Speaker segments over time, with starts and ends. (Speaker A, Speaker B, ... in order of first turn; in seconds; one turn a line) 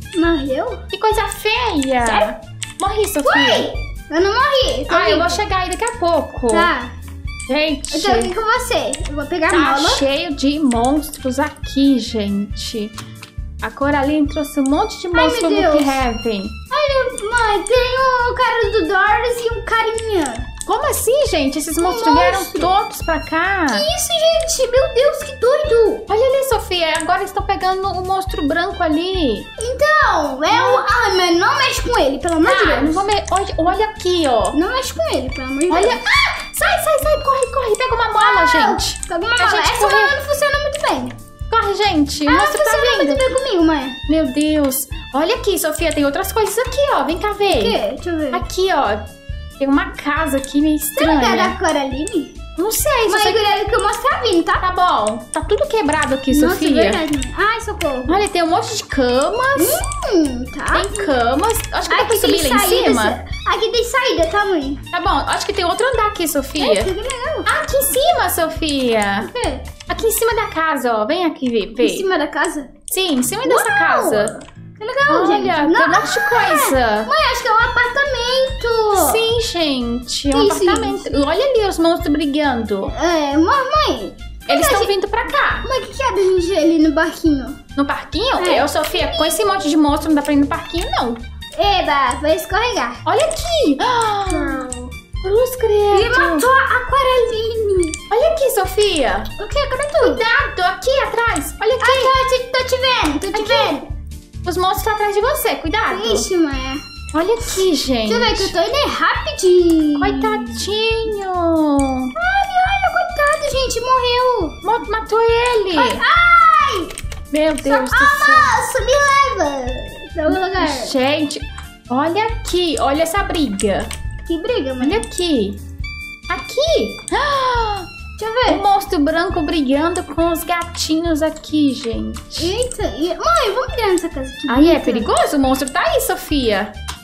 Speaker A: 0.1-0.8
Speaker B: 0.9-3.7
Speaker A: 2.0-2.3
Speaker A: 3.2-5.4
Speaker B: 4.9-6.7
Speaker A: 6.5-6.9
Speaker B: 7.5-8.3
Speaker A: 7.9-10.0
Speaker B: 9.5-12.9
Speaker B: 13.6-16.5
Speaker A: 15.1-16.0
Speaker A: 16.7-20.5
Speaker B: 20.6-23.9
Speaker A: 21.8-22.7
Speaker A: 23.7-26.1
Speaker B: 26.1-29.5
Speaker A: 29.6-33.0
Speaker B: 30.5-30.8
Speaker B: 32.4-34.6
Speaker A: 34.5-36.0
Speaker B: 35.7-40.1
Speaker A: 38.2-41.1
Speaker B: 41.5-43.3
Speaker A: 42.3-44.0
Speaker B: 44.1-47.8
Speaker A: 47.5-48.4
Speaker B: 48.3-49.0
Speaker B: 49.6-51.5
Speaker A: 51.0-52.4
Speaker B: 52.5-53.6
Speaker A: 53.1-54.6
Speaker B: 54.6-57.0
Speaker A: 56.3-58.2
Speaker B: 58.1-59.8
Speaker A: 59.5-61.1
Speaker B: 60.7-63.2
Speaker A: 61.9-64.8
Speaker B: 64.9-66.9
Speaker A: 66.6-67.5
Speaker B: 67.5-69.3
Speaker A: 69.2-69.7
Speaker B: 69.9-72.1
Speaker A: 71.8-72.7
Speaker B: 72.9-74.3
Speaker A: 73.4-79.2
Speaker B: 75.1-77.1
Speaker B: 78.9-82.9
Speaker A: 80.3-81.1
Speaker A: 82.9-84.9
Speaker B: 84.5-85.7
Speaker A: 85.5-87.6
Speaker B: 87.8-91.2
Speaker A: 88.4-89.3
Speaker A: 91.5-93.0
Speaker B: 93.0-94.7
Speaker A: 94.3-94.9
Speaker B: 95.2-96.5
Speaker A: 95.9-98.0
Speaker B: 98.1-99.3
Speaker A: 99.4-100.2
Speaker B: 100.0-102.1
Speaker A: 101.8-103.9
Speaker B: 103.3-103.8
Speaker B: 104.4-106.3
Speaker A: 105.9-106.8
Speaker B: 107.1-108.5
Speaker A: 108.0-110.6
Speaker B: 110.0-112.1
Speaker A: 112.1-114.6
Speaker B: 114.6-116.0
Speaker A: 115.7-116.9
Speaker B: 117.3-118.5
Speaker A: 117.6-120.9
Speaker B: 120.3-123.9
Speaker A: 124.2-125.0
Speaker B: 124.8-125.6
Speaker B: 126.3-127.9
Speaker A: 128.2-128.6
Speaker B: 128.4-132.5
Speaker A: 132.4-135.1
Speaker B: 134.5-136.7